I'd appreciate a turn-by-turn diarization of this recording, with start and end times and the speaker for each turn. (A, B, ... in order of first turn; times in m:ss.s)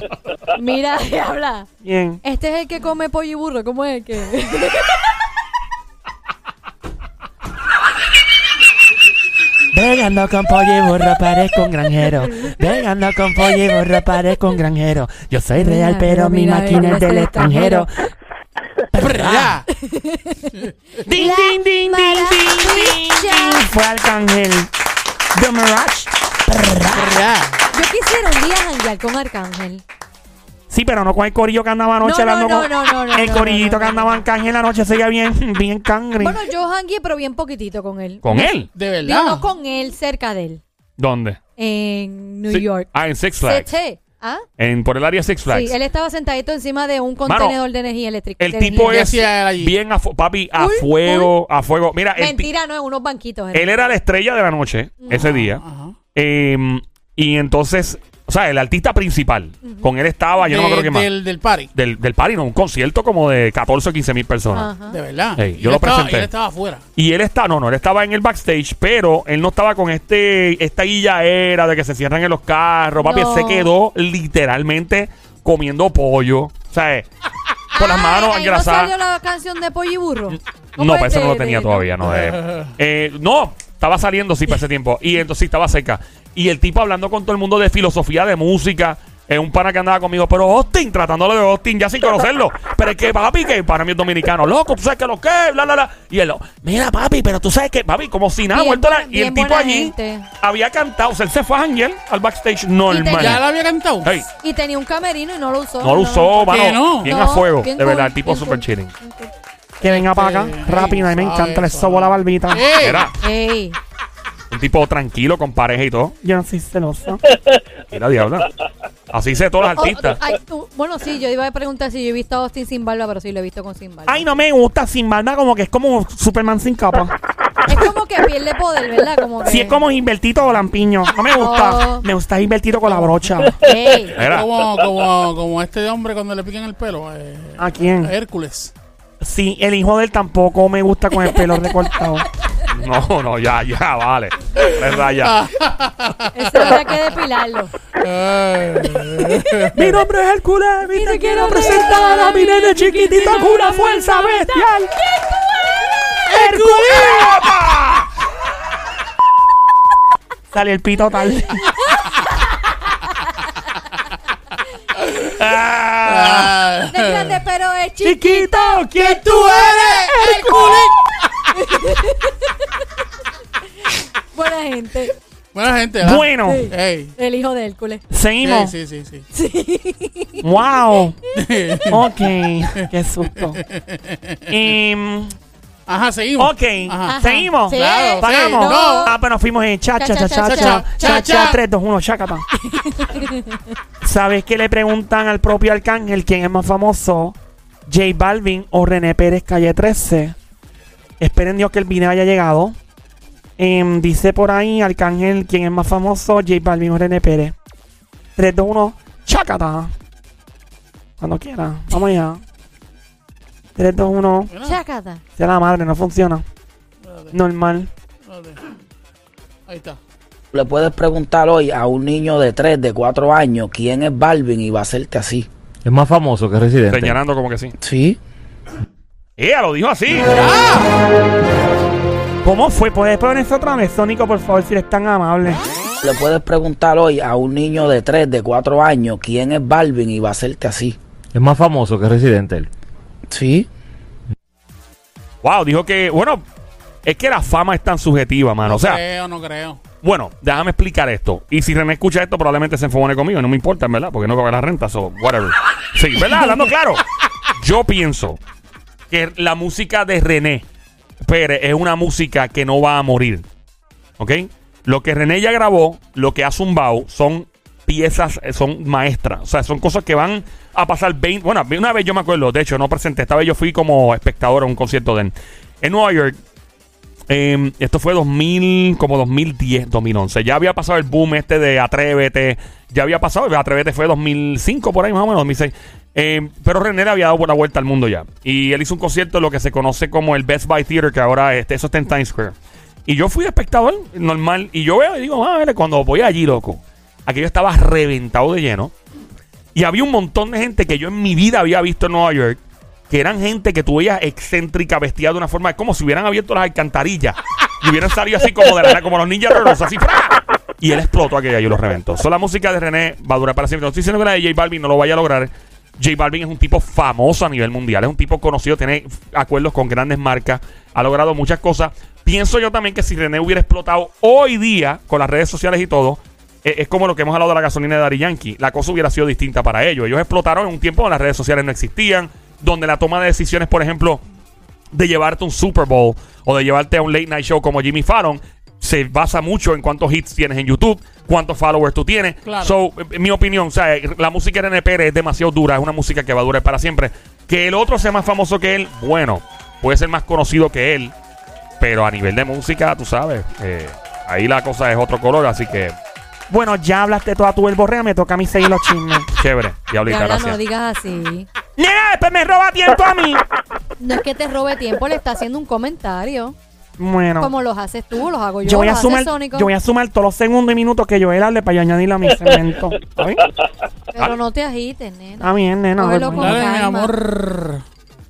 0:00.5-0:01.7 A
0:01.8-0:02.2 B
0:02.2-0:05.0 A
0:09.7-0:17.9 B
0:15.6-0:17.9 A
0:18.9-0:19.6 B
0:19.0-0:19.7 C
0:19.7-0:23.7 A
0:21.0-0:24.7 B
0:25.3-0:27.2 B
0:26.9-0:27.6 C
0:27.7-0:29.8 A
0:30.7-0:36.4 B
0:32.0-0:34.2 A
0:36.2-0:40.6 A
0:38.2-0:38.7 D
0:38.7-0:39.5 C
0:41.0-0:41.4 D
0:41.6-0:42.9 A
0:42.5-0:43.7 D
0:43.4-0:44.4 A
0:44.6-0:45.8 D
0:45.5-0:49.1 A
0:47.2-0:47.6 D
0:48.4-0:52.5 D
0:48.8-0:49.7 C
0:50.6-0:51.3 A
0:52.2-0:53.8 A
0:53.5-0:55.6 D
0:55.0-0:55.3 A
0:55.1-0:56.0 C
0:56.1-1:01.1 D
1:00.4-1:01.7 C
1:01.7-1:04.7 D
1:04.5-1:05.0 A
1:04.9-1:06.8 C
1:05.4-1:06.3 D
1:07.0-1:17.0 D
1:13.0-1:13.7 A
1:17.7-1:18.9 D
1:17.7-1:21.9 A
1:20.8-1:43.4 D
1:22.1-1:22.7 C
1:38.5-1:40.3 A
1:42.9-1:43.4 A
1:43.2-1:44.1 C
1:44.4-1:49.3 A
1:45.8-1:48.9 D
1:46.5-1:47.1 C
1:49.8-1:52.7 B
1:49.8-1:53.1 C
1:52.8-1:53.1 D
1:53.2-1:53.8 A
1:54.5-1:56.2 D
1:56.2-1:57.2 B
1:57.9-1:58.5 D
1:59.1-2:00.2 D
1:59.8-2:04.2 A
2:04.1-2:07.2 B
2:07.6-2:09.8 A
2:09.4-2:13.6 B
2:11.3-2:12.1 A
2:12.9-2:13.2 C
2:13.6-2:14.2 A
2:14.1-2:14.8 D
2:14.2-2:18.7 C
2:17.6-2:18.1 B
2:19.2-2:22.3 B
2:22.7-2:25.3 D
2:24.6-2:26.9 C
2:26.3-2:27.7 A
2:28.0-2:29.9 C
2:29.7-2:34.9 B
2:30.9-2:34.6 A
2:36.3-2:37.6 C
2:36.3-2:37.8 B
2:40.5-2:41.7 B
2:45.0-2:45.3 C
2:45.4-2:46.5 B
2:46.0-2:47.4 C
2:46.8-2:49.1 A
2:48.0-2:50.9 B
2:49.0-2:50.9 C
2:51.5-2:52.4 A
2:54.3-2:55.1 A
2:55.5-2:57.1 C
2:56.0-2:56.7 B
2:56.4-2:58.0 A
2:58.1-2:58.7 B
2:58.4-2:59.2 C
2:59.3-3:00.5 A
3:00.4-3:01.2 B
3:01.4-3:02.1 C
3:01.9-3:03.6 B
3:03.4-3:04.6 C
3:04.5-3:05.3 B
3:05.9-3:09.1 C
3:06.4-3:12.4 B
3:07.0-3:09.1 A
3:10.0-3:11.3 A
3:10.4-3:11.6 C
3:12.6-3:13.6 A
3:14.0-3:17.4 B
3:17.9-3:20.4 B
3:21.2-3:22.8 B
3:23.6-3:27.5 B
3:28.4-3:29.9 B
3:31.2-3:32.4 B
3:33.8-3:34.5 B
3:34.5-3:34.8 C
3:34.6-3:35.2 A
3:35.4-3:36.4 B
3:37.0-3:37.4 C
3:37.3-3:37.9 B
3:38.2-3:38.6 C
3:39.7-3:40.0 C
3:40.5-3:45.5 E
3:45.8-3:47.2 F
3:46.9-3:47.7 D
3:47.8-3:48.2 E
3:49.4-3:50.3 D
3:50.3-3:50.9 C
3:52.4-3:55.6 B
3:56.0-4:01.0 E
4:01.3-4:02.7 F
4:03.3-4:03.7 E
4:05.4-4:06.4 D
4:07.0-4:09.0 D
4:08.6-4:09.8 C
4:10.0-4:17.0 D
4:17.6-4:18.4 D
4:19.1-4:20.6 D
4:21.2-4:23.4 D
4:24.2-4:36.4 D
4:37.3-4:52.5 D
4:53.1-4:58.9 D
4:59.7-5:34.2 D
5:34.9-5:51.1 D
5:42.4-5:42.7 C
5:51.8-5:55.9 D
5:56.5-5:59.3 B
5:59.4-6:00.6 D
6:00.0-6:01.5 A
6:01.8-6:03.4 B
6:04.0-6:06.6 A
6:07.0-6:07.5 B
6:07.4-6:09.7 A
6:08.6-6:13.4 B
6:14.1-6:17.1 A
6:15.4-6:16.7 B
6:16.3-6:17.8 C